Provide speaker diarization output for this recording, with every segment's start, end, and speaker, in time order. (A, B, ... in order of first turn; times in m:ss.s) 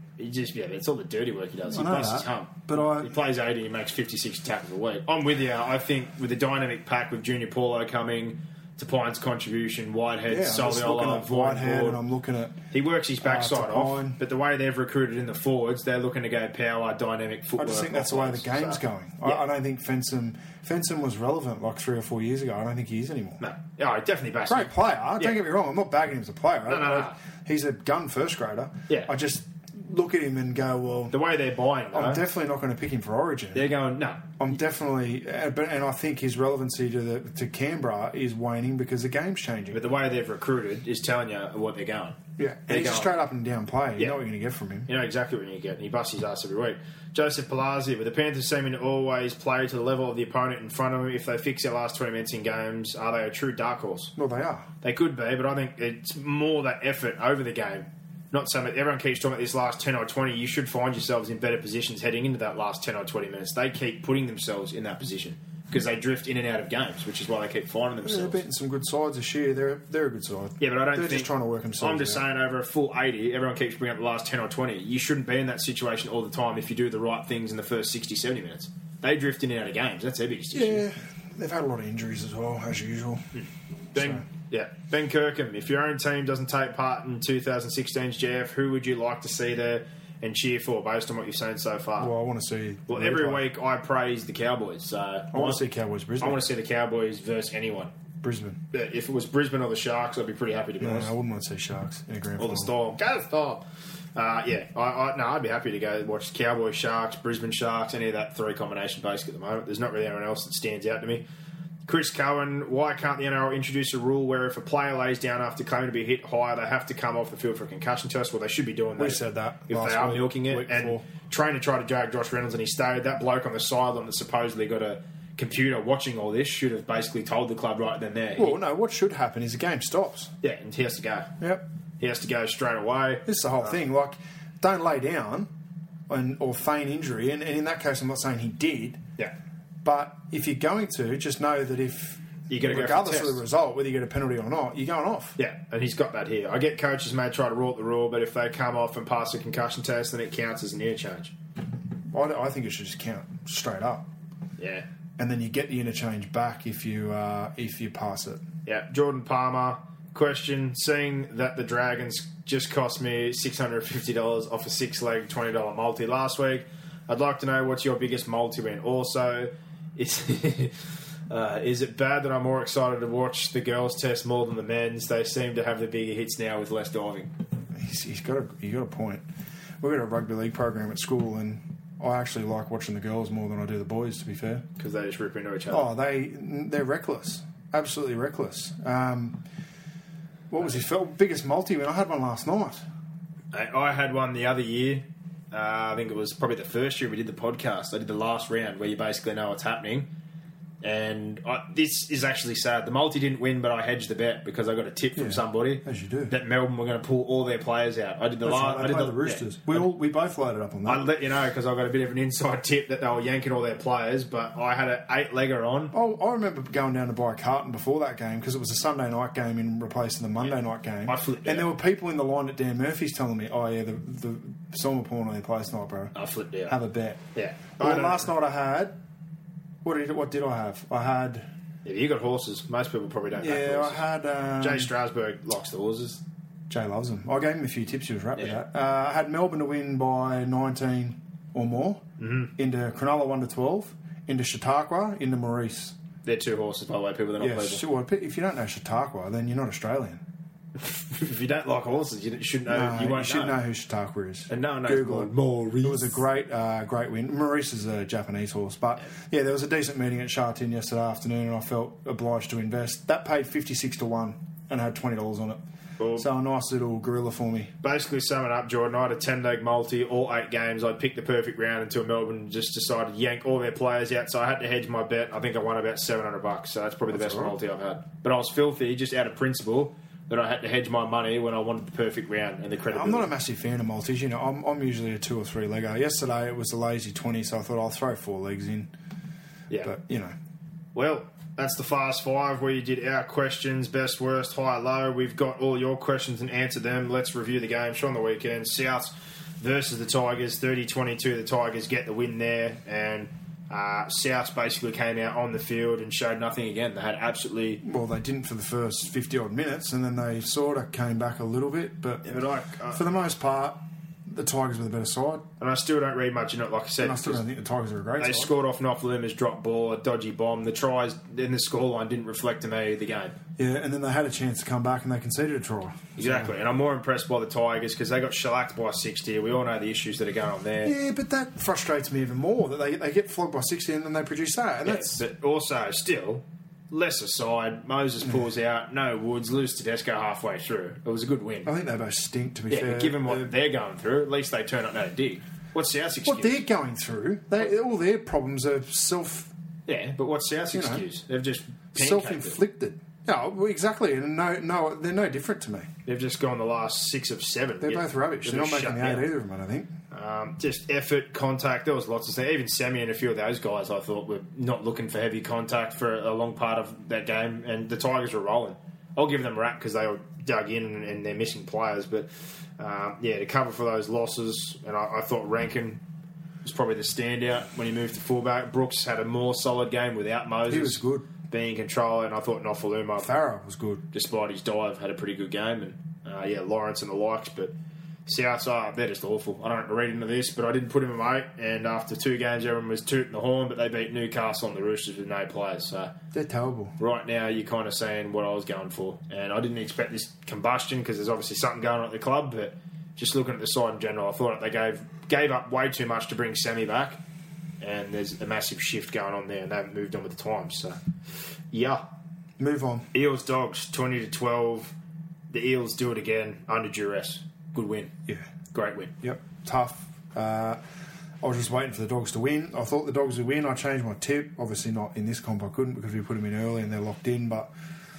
0:00.2-0:12.0 A
0:01.7-0:03.2 B
0:10.3-0:12.6 B
0:12.7-0:19.4 A
0:13.2-0:14.2 B
0:17.6-0:23.4 B
0:23.4-0:25.4 A
0:24.5-0:31.2 B
0:26.7-0:27.2 A
0:31.1-0:32.2 A
0:31.9-0:33.7 B
0:33.5-0:34.2 A
0:34.4-0:39.9 B
0:39.7-0:42.2 A
0:42.4-0:44.9 B
0:42.7-0:43.1 A
0:44.9-0:54.1 A
0:54.2-0:54.7 B
0:54.8-1:08.4 A
1:08.0-1:12.2 B
1:10.6-1:20.8 A
1:20.5-1:23.3 B
1:23.3-1:32.1 A
1:24.0-1:24.2 B
1:32.0-1:33.4 B
1:32.9-1:35.6 A
1:35.3-1:36.5 B
1:36.2-1:37.9 A
1:38.2-1:38.6 B
1:38.7-1:41.1 A
1:40.8-1:42.7 B
1:42.4-1:43.6 A
1:44.2-1:51.2 A
1:51.9-2:08.6 A
1:59.0-2:01.1 B
2:08.4-2:10.3 B
2:10.4-2:11.3 A
2:12.0-2:13.6 A
2:13.3-2:15.5 B
2:16.1-2:19.0 B
2:19.8-2:25.4 B
2:22.5-2:23.4 A
2:25.4-2:31.3 A
2:32.1-2:34.1 B
2:34.6-2:34.9 A
2:35.2-2:38.4 B
2:38.7-2:50.8 A
2:51.3-2:57.3 A
2:57.7-2:59.2 B
2:59.8-3:04.6 B
3:04.8-3:05.9 A
3:05.7-3:09.4 B
3:10.5-3:12.8 B
3:13.5-3:20.1 A
3:20.8-3:29.9 A
3:25.2-3:26.4 B
3:28.4-3:31.0 B
3:30.8-3:35.9 A
3:35.9-3:46.2 B
3:40.4-3:41.7 A
3:46.1-3:46.8 A
3:46.7-3:47.2 B
3:47.4-3:48.3 A
3:47.8-3:49.0 B
3:49.8-3:51.5 B
3:51.8-3:54.0 A
3:53.3-3:54.9 B
3:54.6-3:56.2 A
3:56.7-4:02.0 B
4:02.2-4:02.5 A
4:02.6-4:06.0 B
4:06.2-4:07.8 A
4:07.4-4:10.2 B
4:10.8-4:13.6 A
4:12.7-4:25.6 B
4:14.5-4:16.2 A
4:26.0-4:26.3 A
4:26.2-4:27.7 B
4:27.8-4:43.3 A
4:37.1-4:37.6 B
4:42.9-4:48.9 B
4:49.7-4:49.9 A
4:49.8-4:50.4 B
4:51.0-5:07.8 A
5:07.8-5:12.2 B
5:12.2-5:13.0 A
5:12.9-5:15.4 B
5:15.6-5:17.4 A
5:17.0-5:18.5 B
5:18.2-5:23.4 A
5:23.6-5:26.5 B
5:26.2-5:30.9 A
5:30.8-5:35.2 B
5:34.8-5:41.7 A
5:41.6-5:43.5 B
5:42.7-5:46.6 A
5:46.2-5:49.5 B
5:49.9-5:52.6 A
5:50.7-5:51.1 B
5:52.0-5:55.9 B
5:56.1-5:59.3 A
5:57.8-5:59.9 B
6:00.1-6:16.0 A
6:16.6-6:23.4 A
6:20.7-6:21.3 B
6:23.2-6:24.0 B
6:24.1-6:27.7 A
6:28.3-6:36.1 A
6:36.3-6:37.0 B
6:37.0-6:47.2 A
6:47.8-6:51.0 A
6:51.7-6:52.0 A
6:52.6-6:53.1 B
6:53.1-6:54.9 A
6:55.5-6:58.1 A
6:58.7-6:59.1 A
6:59.2-7:00.8 B
7:01.4-7:07.7 B